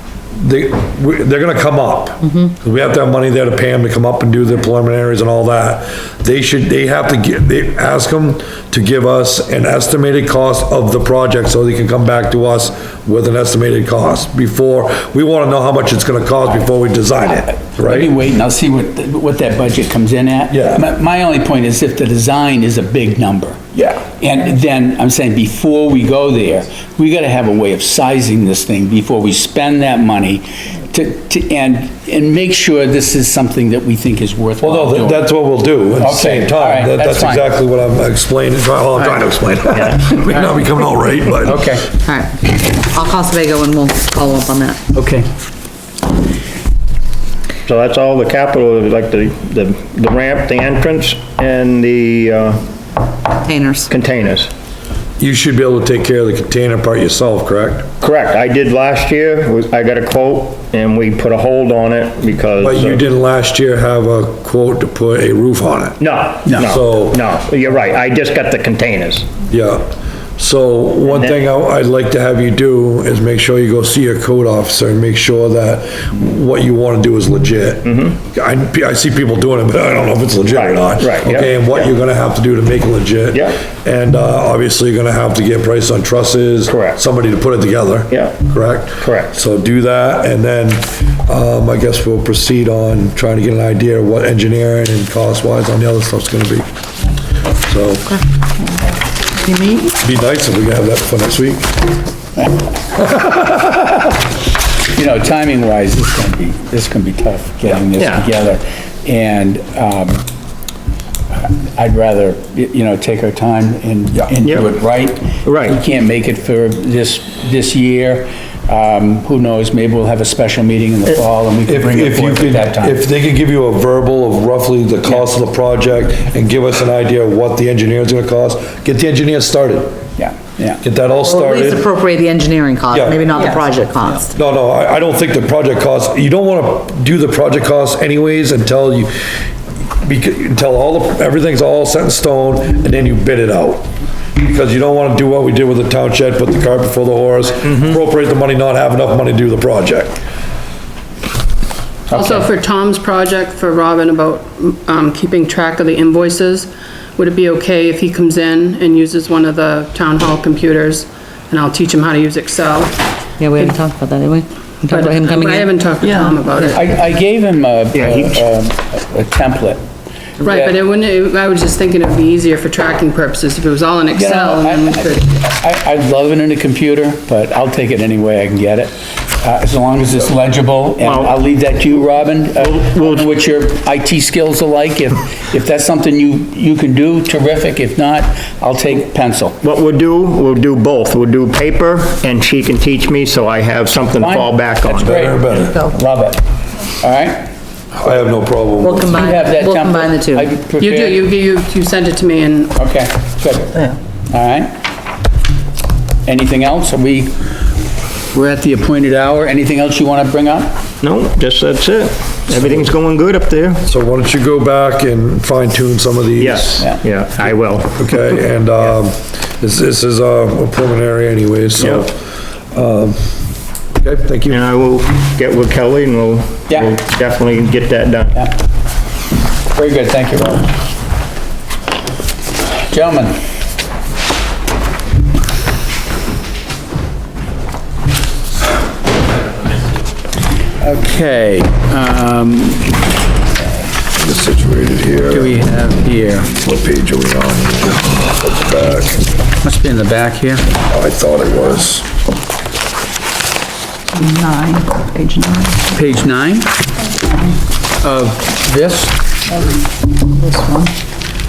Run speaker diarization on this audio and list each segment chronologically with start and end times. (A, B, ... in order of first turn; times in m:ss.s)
0:00.4-0:18.1 A
0:17.8-0:35.3 B
0:20.5-0:20.9 A
0:34.6-0:41.8 A
0:36.0-0:37.5 B
0:39.0-0:39.3 B
0:39.7-0:40.1 C
0:41.4-0:41.9 B
0:42.0-0:44.8 D
0:44.9-0:45.3 B
0:47.7-0:52.6 C
0:53.4-0:53.9 D
0:53.9-0:54.5 C
0:55.2-0:57.9 A
0:58.0-1:03.0 C
1:02.6-1:06.0 A
1:06.0-1:09.3 C
1:06.6-1:07.2 A
1:09.5-1:36.7 A
1:11.1-1:11.4 C
1:17.8-1:18.2 C
1:20.5-1:21.9 C
1:23.3-1:23.6 C
1:26.7-1:27.0 C
1:29.0-1:29.3 C
1:37.6-1:38.2 A
1:39.3-1:40.0 C
1:40.0-1:41.8 A
1:43.1-1:43.6 A
1:44.9-1:50.2 B
1:47.8-1:48.3 C
1:51.3-2:03.0 B
1:54.4-1:54.7 C
1:55.4-1:55.8 C
2:01.7-2:10.0 A
2:10.2-2:10.8 B
2:10.8-2:11.9 A
2:11.1-2:14.3 D
2:12.9-2:13.5 A
2:14.3-2:19.3 A
2:20.0-2:30.2 A
2:32.1-2:32.4 B
2:32.1-2:43.0 E
2:43.4-2:45.7 D
2:44.9-2:47.0 E
2:46.7-2:49.8 B
2:47.9-2:48.5 C
2:50.4-2:50.8 B
2:50.4-2:55.3 E
2:54.1-3:09.6 B
3:01.0-3:01.4 C
3:02.6-3:03.3 C
3:09.6-3:15.2 C
3:14.2-3:16.4 B
3:15.0-3:15.8 A
3:17.0-3:17.5 B
3:17.9-3:19.2 A
3:18.8-3:20.5 D
3:19.0-3:21.2 B
3:20.8-3:22.8 E
3:22.8-3:24.7 B
3:26.2-3:27.4 B
3:28.3-3:30.8 B
3:31.0-3:33.8 C
3:33.8-3:36.8 A
3:36.4-3:38.3 C
3:38.0-3:43.2 A
3:44.0-3:44.6 A
3:44.5-3:48.4 C
3:49.7-3:50.7 B
3:52.8-3:53.3 B
4:00.8-4:03.0 B
4:04.2-4:05.5 A
4:05.2-4:06.5 B
4:06.6-4:09.2 A
4:09.6-4:10.7 B
4:10.9-4:12.0 A
4:14.1-4:15.9 D
4:15.9-4:16.7 B
4:18.0-4:19.2 B
4:20.3-4:20.9 D